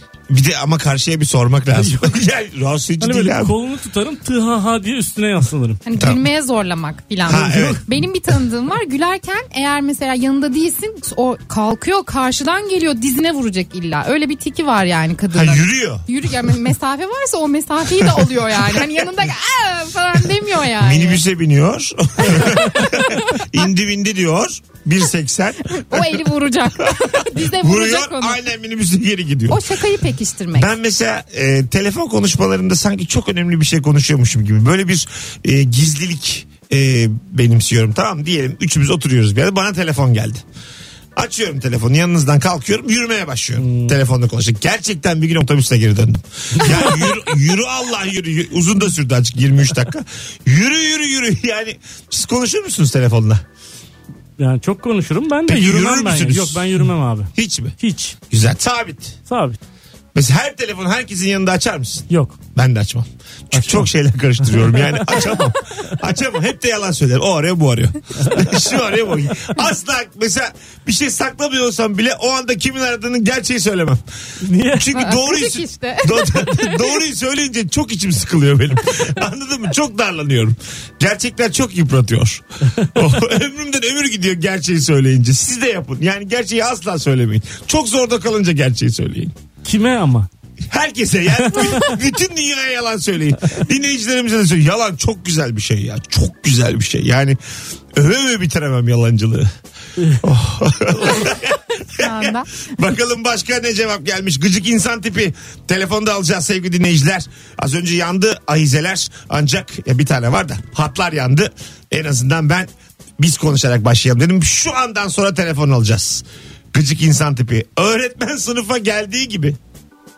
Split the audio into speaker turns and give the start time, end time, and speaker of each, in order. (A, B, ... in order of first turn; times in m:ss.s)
0:00.3-0:03.5 A
0:01.8-0:02.1 B
0:03.0-0:05.8 B
0:05.8-0:21.2 C
0:07.3-0:07.8 A
0:15.3-0:16.1 A
0:17.9-0:19.0 A
0:20.8-0:26.3 A
0:22.3-0:23.4 C
0:25.6-0:28.4 C
0:26.8-0:29.6 A
0:29.5-0:30.7 C
0:30.5-0:40.4 A
0:41.2-0:53.4 A
0:43.6-0:43.9 B
0:46.6-0:47.1 B
0:54.4-0:58.2 B
0:55.5-0:56.7 A
0:57.3-0:57.7 A
0:58.3-0:59.2 A
0:59.3-0:59.6 B
1:00.1-1:14.0 A
1:02.1-1:02.4 B
1:03.5-1:03.8 B
1:04.4-1:05.3 B
1:14.4-1:15.0 B
1:14.7-1:22.4 A
1:15.0-1:16.9 C
1:22.9-1:29.3 A
1:29.6-1:30.3 B
1:30.7-1:37.4 A
1:31.5-1:31.9 B
1:37.9-1:39.5 A
1:40.2-1:59.6 A
1:42.0-1:42.5 C